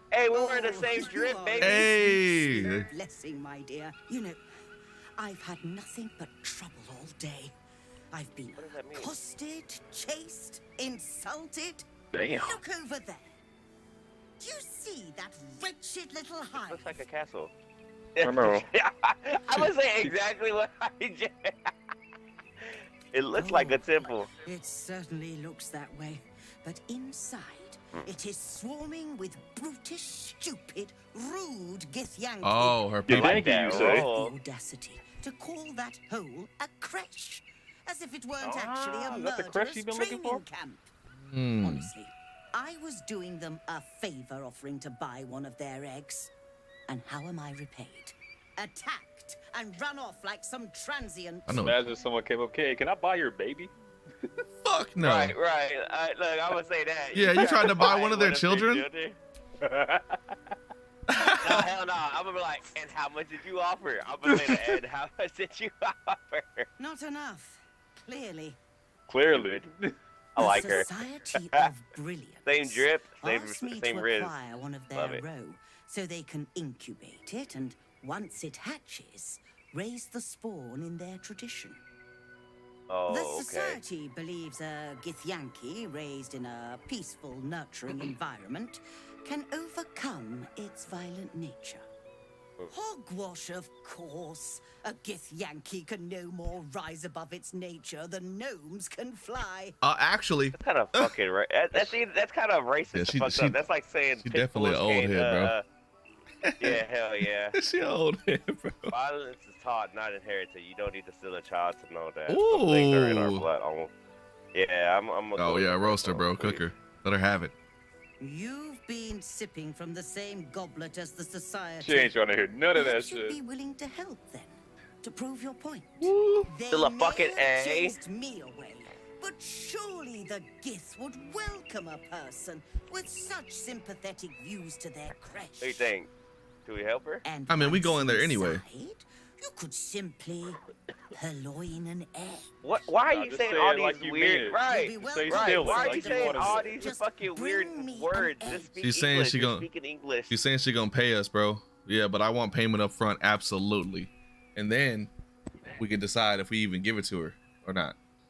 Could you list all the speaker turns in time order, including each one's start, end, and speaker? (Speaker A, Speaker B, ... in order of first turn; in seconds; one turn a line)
Speaker A: 0.1-1.9
Speaker B: 0.3-4.5
Speaker C: 1.6-2.9
Speaker B: 5.2-7.5
Speaker B: 8.1-13.3
Speaker A: 8.6-9.1
Speaker D: 12.1-12.6
Speaker B: 14.4-17.0
Speaker A: 16.7-17.5
Speaker A: 18.1-21.7
Speaker D: 18.2-18.7
Speaker A: 22.6-24.3
Speaker B: 23.3-40.9
Speaker C: 32.4-33.4
Speaker D: 33.0-34.1
Speaker A: 33.1-34.4
Speaker D: 38.4-40.4
Speaker C: 41.2-41.9
Speaker B: 41.6-46.3
Speaker B: 46.9-51.6
Speaker C: 51.5-51.9
Speaker D: 51.6-53.7
Speaker C: 54.6-55.4
Speaker A: 55.0-59.2
Speaker C: 57.1-58.9
Speaker D: 59.6-60.4
Speaker C: 61.1-61.7
Speaker A: 61.4-66.7
Speaker D: 64.3-64.8
Speaker B: 66.8-68.6
Speaker D: 69.1-70.0
Speaker A: 69.3-69.7
Speaker A: 70.4-71.7
Speaker B: 70.4-81.8
Speaker D: 70.5-70.8
Speaker A: 72.5-74.3
Speaker A: 75.0-75.2
Speaker A: 82.9-83.8
Speaker B: 83.1-91.9
Speaker B: 92.7-99.8
Speaker C: 99.8-101.1
Speaker A: 100.6-105.6
Speaker C: 103.0-103.6
Speaker C: 104.2-105.5
Speaker C: 106.4-106.8
Speaker A: 106.6-107.6
Speaker C: 107.5-109.0
Speaker A: 108.9-113.9
Speaker C: 112.3-113.5
Speaker A: 114.5-116.7
Speaker C: 115.4-117.5
Speaker B: 118.2-122.2
Speaker D: 121.8-123.4
Speaker B: 122.7-135.9
Speaker C: 126.0-126.5
Speaker A: 126.7-128.0
Speaker A: 135.6-136.1
Speaker A: 136.7-137.2
Speaker B: 137.2-140.6
Speaker C: 137.5-138.7
Speaker B: 141.1-142.5
Speaker A: 142.6-150.4
Speaker D: 143.1-146.8
Speaker B: 144.6-148.8
Speaker C: 148.8-149.7
Speaker C: 150.3-155.1
Speaker C: 155.8-158.0